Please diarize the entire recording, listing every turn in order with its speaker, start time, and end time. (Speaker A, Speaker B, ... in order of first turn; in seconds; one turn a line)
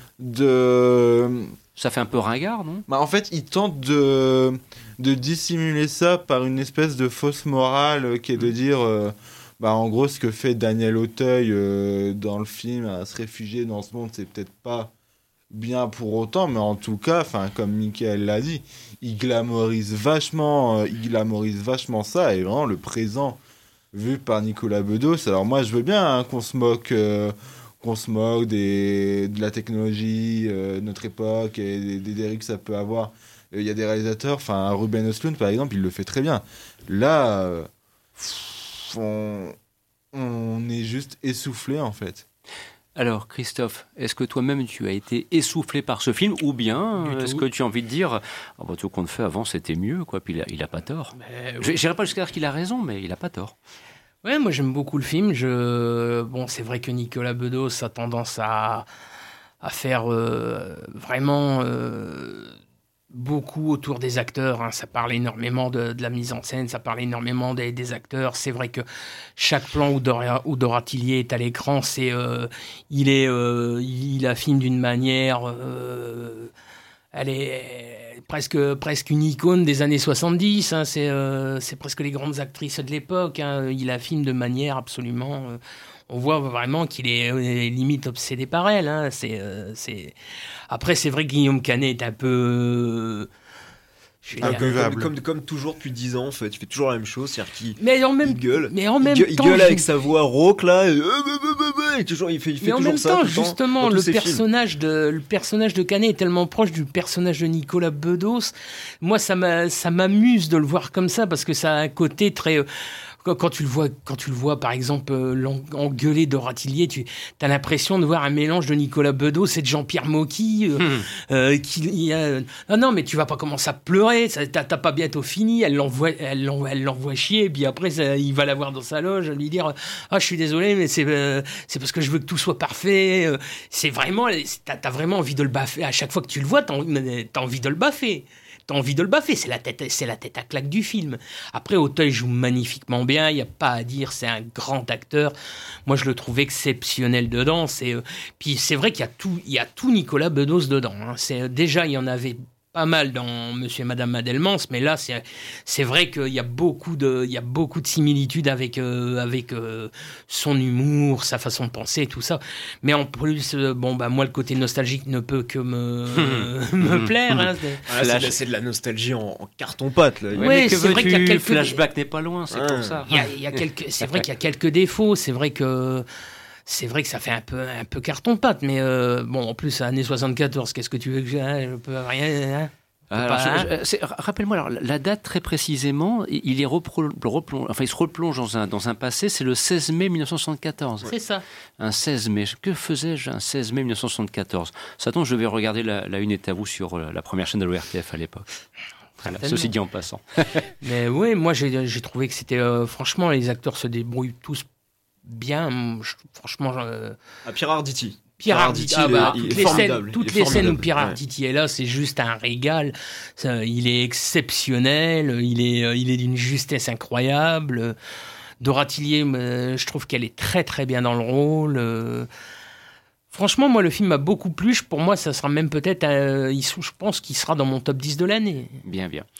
Speaker A: 0.2-1.5
Speaker B: 1.8-2.8
Speaker A: 2.9-14.9
Speaker A: 15.5-23.4
Speaker A: 23.9-39.5
Speaker A: 40.1-42.2
Speaker B: 43.0-53.5
Speaker C: 47.0-47.4
Speaker C: 51.2-51.8
Speaker C: 54.2-58.9
Speaker C: 59.6-62.5
Speaker C: 63.1-68.8
Speaker C: 69.4-76.5
Speaker C: 77.1-90.1
Speaker C: 90.7-93.3
Speaker C: 94.2-94.7
Speaker D: 94.4-104.4
Speaker A: 94.4-95.1
Speaker C: 97.8-100.0
Speaker C: 102.6-112.7
Speaker C: 113.2-145.3
Speaker B: 120.8-121.1
Speaker C: 145.8-167.8
Speaker B: 166.1-168.4
Speaker D: 167.9-170.9
Speaker C: 170.3-171.8
Speaker B: 170.3-174.3
Speaker D: 172.5-173.1
Speaker C: 173.1-176.1
Speaker C: 176.7-183.7
Speaker B: 183.1-191.1
Speaker C: 191.0-191.4
Speaker B: 191.8-198.5
Speaker B: 199.2-200.7
Speaker C: 199.3-199.7
Speaker C: 200.8-204.6
Speaker C: 205.2-207.2
Speaker D: 207.4-211.2
Speaker C: 208.4-217.9
Speaker B: 209.4-209.8
Speaker C: 218.6-222.3
Speaker C: 223.3-228.8
Speaker B: 228.8-229.2